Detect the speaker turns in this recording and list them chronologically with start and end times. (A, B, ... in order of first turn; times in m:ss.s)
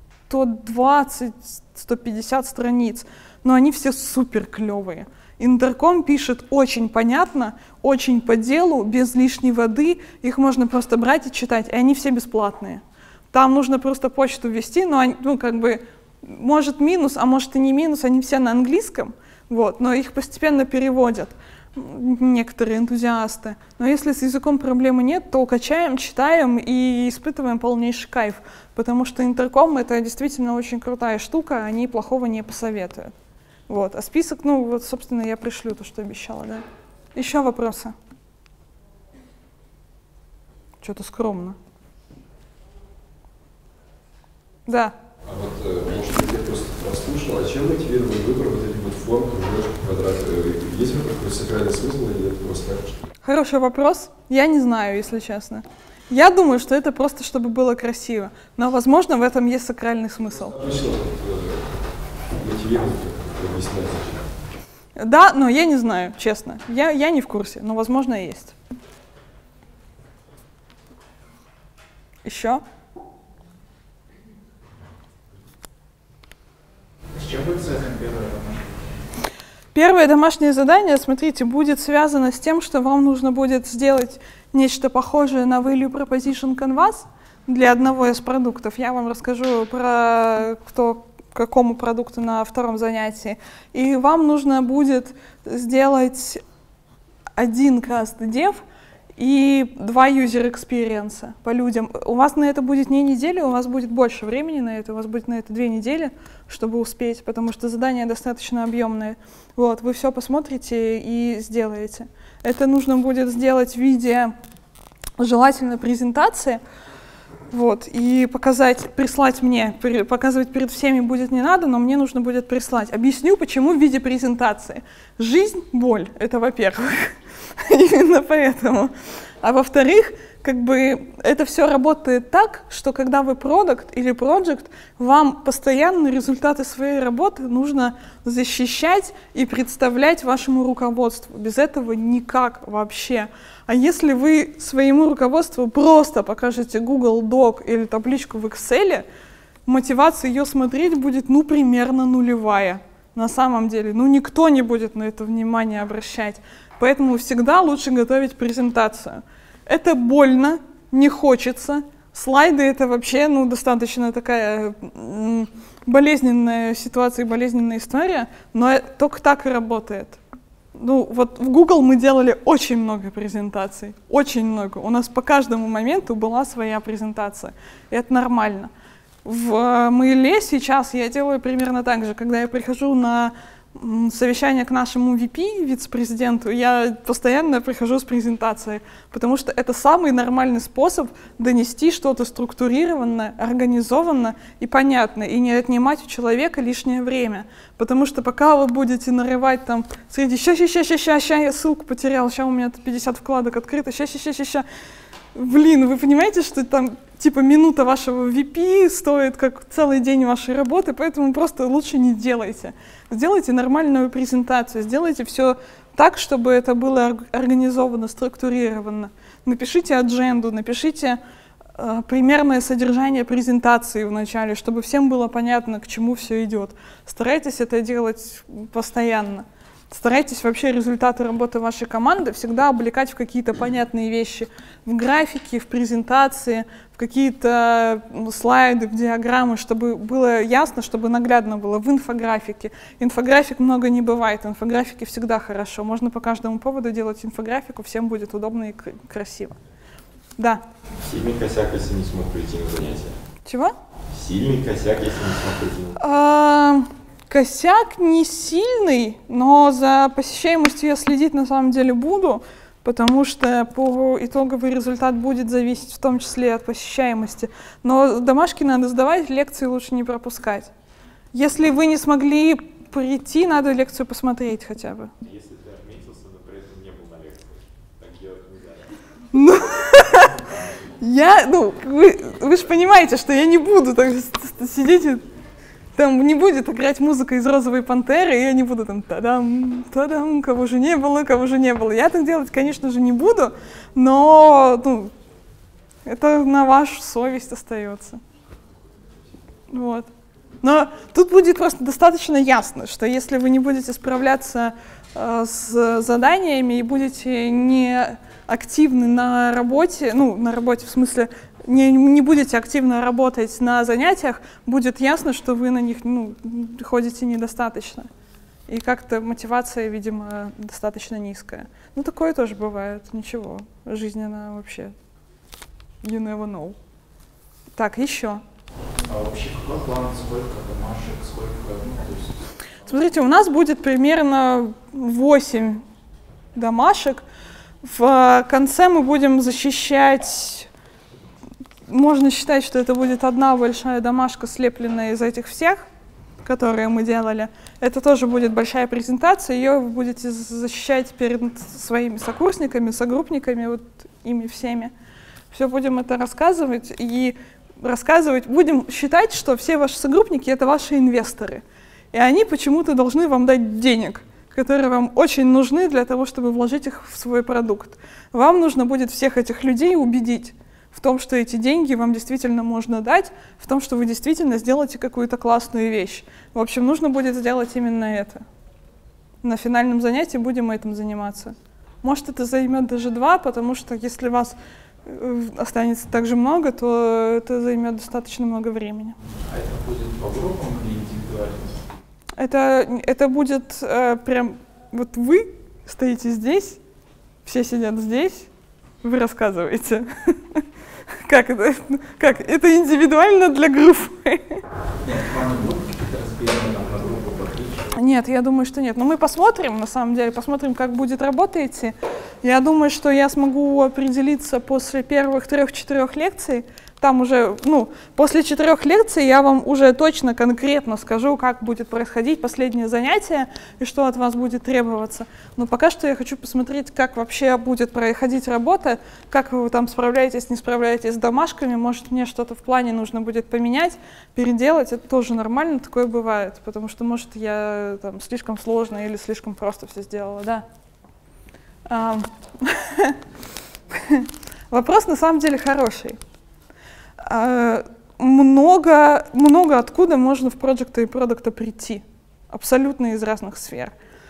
0:00.3-0:12.8 A
0:13.3-0:33.1 A
0:33.7-0:36.6 A
0:37.1-0:37.9 A
0:40.8-0:41.6 A
0:44.7-0:44.9 A
0:45.2-0:53.0 B
0:53.2-1:00.6 A
1:00.5-1:01.7 B
1:02.4-1:04.3 B
1:05.0-1:08.5 A
1:12.2-1:12.6 A
1:17.1-1:18.6 C
1:19.7-1:36.4 A
1:37.4-1:38.6 A
1:39.2-1:54.3 A
1:55.2-1:56.6 A
1:57.5-2:08.9 A
2:09.4-2:29.0 A
2:29.6-2:50.2 A
2:50.7-2:58.7 A
2:59.2-3:24.6 A
3:25.3-3:41.2 A
3:41.8-4:09.6 A
4:11.0-4:13.2 D
4:13.4-4:13.7 A
4:14.1-4:16.0 D
4:16.0-4:30.7 A
4:31.3-4:35.1 A
4:35.2-4:38.9 D
4:39.3-4:40.4 A
4:41.0-4:45.2 A
4:46.0-4:55.1 A
4:56.0-4:58.2 A
4:59.7-5:00.1 A
5:00.6-5:18.1 A
5:18.7-5:24.9 A
5:26.0-5:26.8 A
5:27.8-5:28.4 A
5:29.1-5:32.4 C
5:32.9-5:35.8 A
5:36.5-5:37.2 A
5:37.8-5:40.7 A
5:41.9-5:45.8 A
5:46.4-5:54.9 A
5:55.5-6:18.4 A
6:19.4-6:29.2 A
6:29.4-6:31.8 C
6:32.4-6:36.8 A
6:37.4-6:38.5 A
6:39.0-6:40.6 A
6:41.2-6:44.6 A
6:45.0-6:47.9 C
6:47.9-7:20.6 A
7:21.9-7:23.2 A
7:23.9-7:26.2 A
7:27.2-7:33.9 A